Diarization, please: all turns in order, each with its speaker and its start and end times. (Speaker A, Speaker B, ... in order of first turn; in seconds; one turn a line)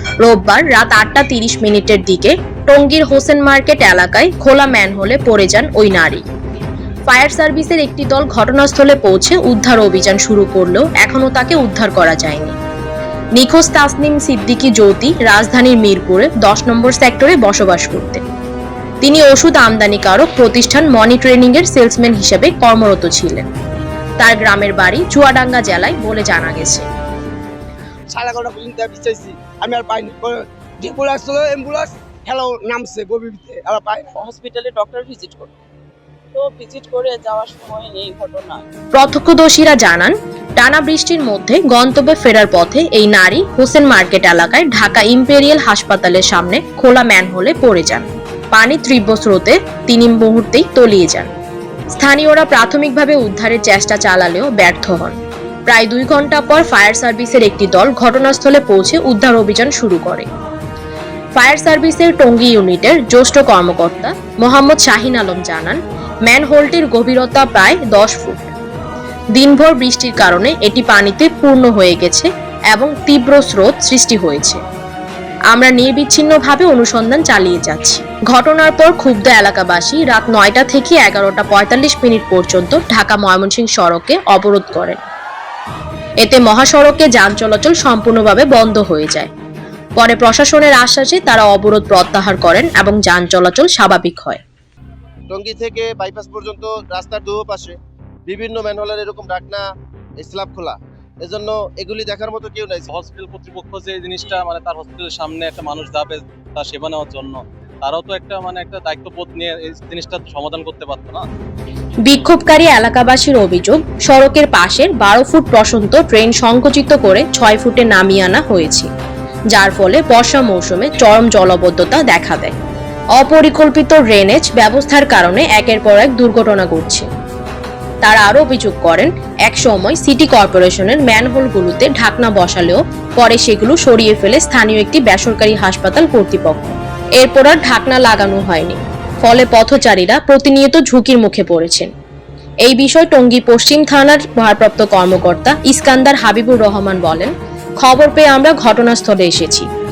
Speaker A: 0.2-6.2
Speaker A: 7.1-12.5
Speaker A: 13.3-18.2
Speaker A: 19.0-23.5
Speaker A: 24.2-26.8
Speaker B: 28.1-34.1
Speaker C: 34.1-35.5
Speaker C: 36.3-38.6
Speaker A: 39.0-51.3
Speaker A: 52.0-60.3
Speaker A: 61.4-68.5
Speaker A: 69.3-74.6
Speaker A: 75.5-85.0
Speaker A: 86.2-89.3
Speaker A: 90.0-94.4
Speaker D: 95.3-99.6
Speaker D: 100.2-102.9
Speaker E: 102.9-111.2
Speaker A: 112.0-118.9
Speaker A: 119.5-122.5
Speaker A: 123.2-127.1
Speaker A: 128.0-141.9
Speaker A: 142.6-149.7